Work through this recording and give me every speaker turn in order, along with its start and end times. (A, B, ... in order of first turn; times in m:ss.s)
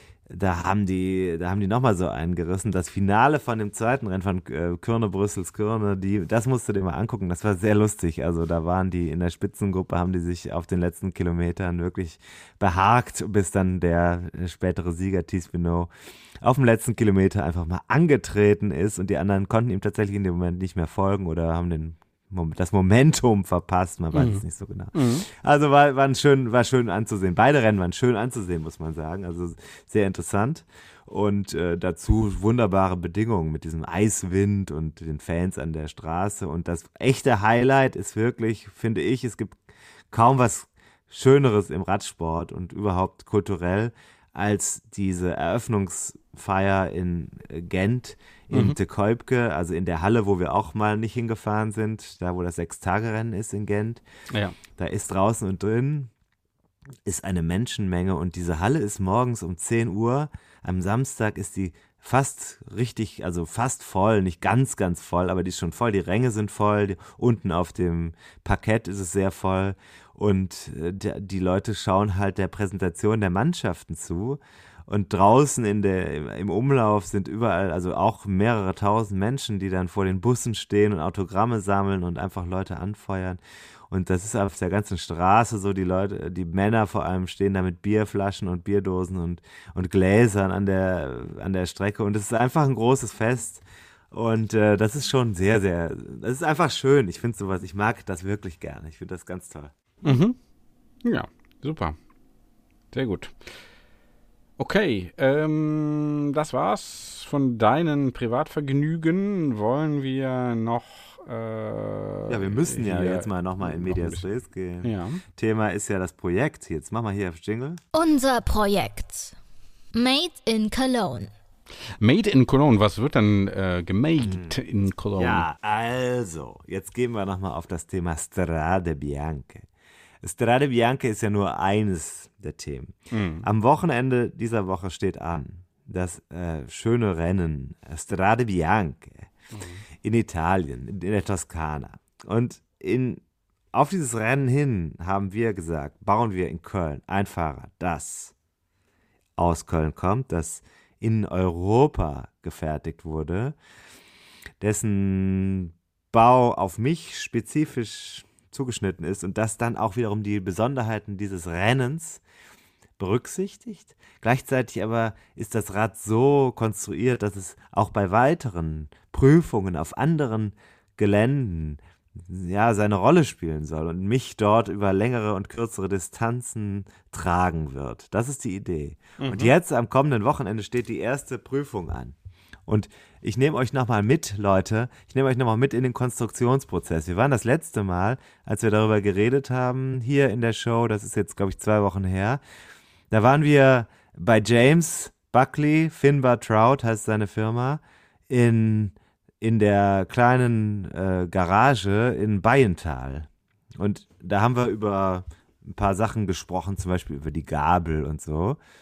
0:00.3-0:54.0 A
0:24.1-0:25.2 B
0:48.5-0:48.8 B
0:54.3-0:54.6 B
0:54.7-0:56.1 A
0:57.0-1:39.7 A
1:40.0-1:40.4 B
1:41.0-1:42.0 B
1:42.9-1:43.6 B
1:44.6-1:54.2 B
1:52.3-1:57.8 A
1:54.8-1:55.2 B
1:57.9-1:59.3 C
1:59.9-2:01.3 C
2:02.0-2:05.4 B
2:04.2-2:04.6 A
2:05.2-2:09.7 A
2:10.2-2:19.3 A
2:13.1-2:13.5 B
2:19.5-2:19.8 B
2:20.0-2:23.2 A
2:23.7-2:28.3 A
2:29.4-2:33.6 A
2:34.6-2:42.2 A
2:43.0-3:02.1 A
2:59.2-2:59.5 B
3:02.7-3:12.4 A
3:13.1-3:28.6 A